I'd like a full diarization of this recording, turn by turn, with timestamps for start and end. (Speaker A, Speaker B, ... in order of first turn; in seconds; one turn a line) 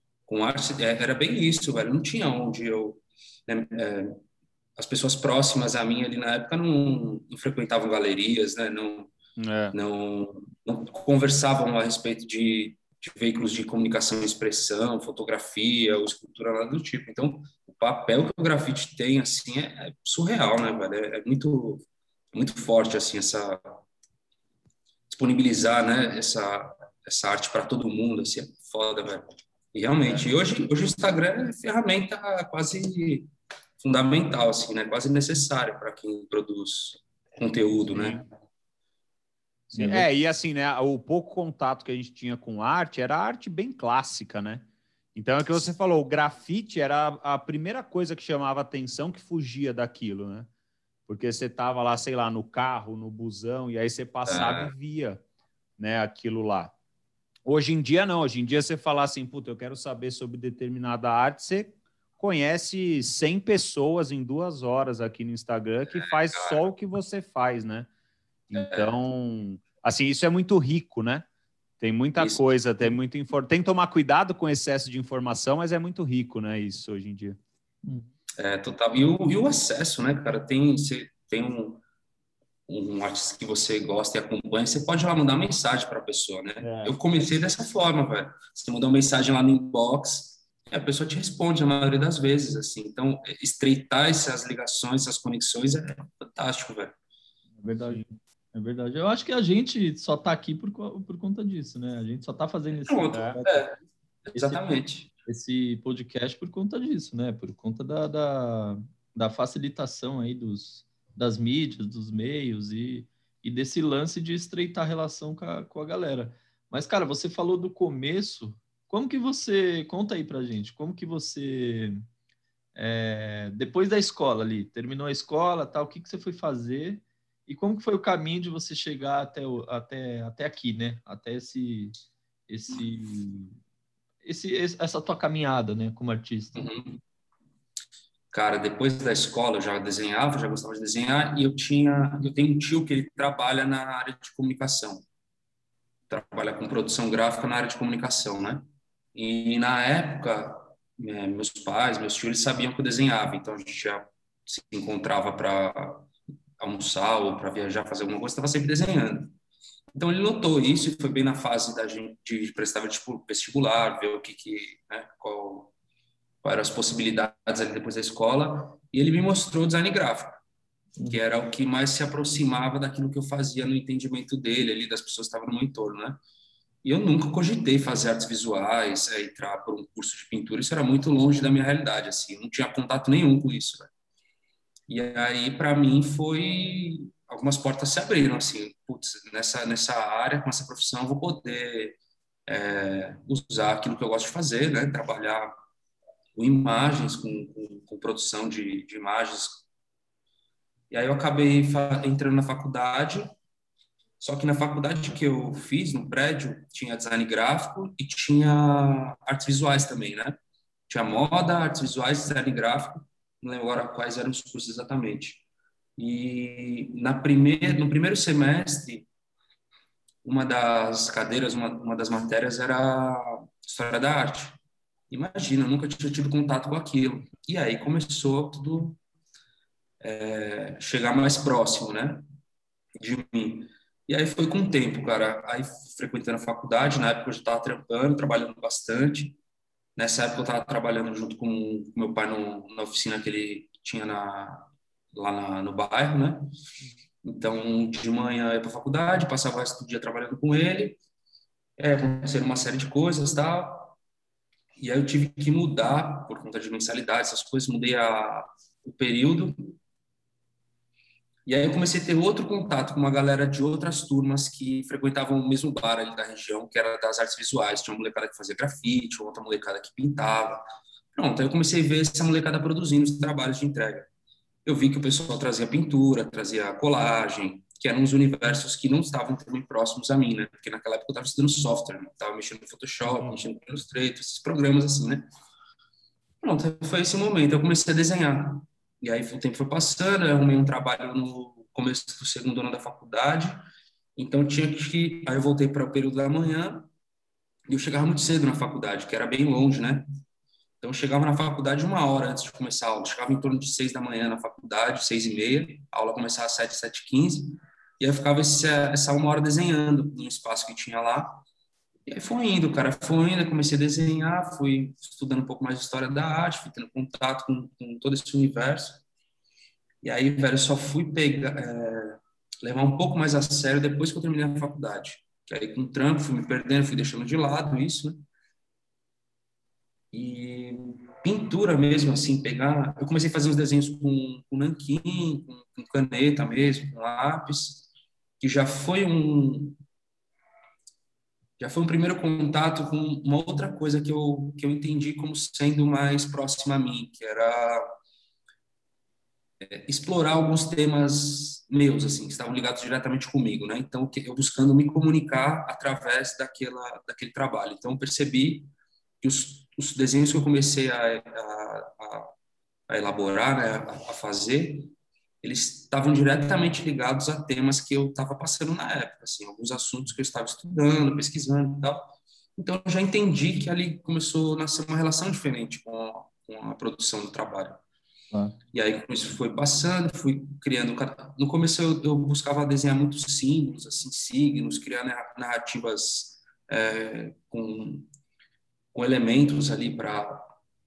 Speaker A: 0.3-4.2
Speaker A: 4.8-9.1
Speaker B: 9.4-9.7
Speaker A: 9.7-23.8
Speaker A: 25.1-33.3
Speaker A: 33.8-38.2
Speaker B: 37.9-38.2
Speaker B: 39.7-50.5
Speaker C: 39.7-40.0
Speaker B: 51.1-55.2
Speaker A: 54.2-54.7
Speaker B: 55.8-56.7
Speaker B: 57.5-67.9
Speaker A: 65.9-66.6
Speaker B: 68.5-71.2
Speaker A: 68.5-69.0
Speaker B: 71.8-77.4
Speaker A: 72.2-72.5
Speaker A: 78.4-81.8
Speaker A: 82.7-96.9
Speaker B: 86.6-86.9
Speaker B: 97.6-98.0
Speaker C: 97.6-103.6
Speaker A: 102.8-105.1
Speaker B: 103.1-103.4
Speaker C: 104.3-104.6
Speaker C: 105.2-122.0
Speaker C: 122.7-131.9
Speaker C: 132.5-133.6
Speaker C: 134.2-136.6
Speaker A: 136.5-137.0
Speaker A: 138.3-145.1
Speaker A: 146.1-156.1
Speaker A: 156.6-159.3
Speaker A: 159.9-165.7
Speaker A: 166.4-170.4
Speaker A: 171.1-176.2
Speaker A: 176.8-183.9
Speaker A: 184.9-195.5
Speaker A: 196.3-199.6
Speaker A: 200.9-203.3
Speaker A: 204.2-210.4
Speaker A: 210.9-215.4
Speaker A: 216.0-219.1
Speaker A: 220.2-224.6
Speaker A: 225.1-229.0
Speaker A: 230.0-232.2
Speaker A: 233.0-239.4
Speaker A: 239.9-246.5
Speaker A: 247.2-251.0
Speaker A: 251.8-253.9
Speaker A: 254.8-259.8
Speaker A: 261.4-270.6
Speaker A: 271.1-274.1
Speaker A: 274.6-285.3
Speaker A: 286.4-293.6
Speaker A: 294.1-296.9
Speaker A: 297.7-300.0
Speaker A: 300.8-311.4
Speaker A: 312.1-319.0
Speaker A: 320.0-328.2
Speaker A: 330.1-337.9
Speaker A: 338.4-339.8
Speaker A: 341.6-347.8
Speaker A: 349.6-358.7
Speaker A: 359.2-362.3
Speaker A: 362.9-377.8
Speaker A: 378.7-388.1
Speaker A: 388.9-390.5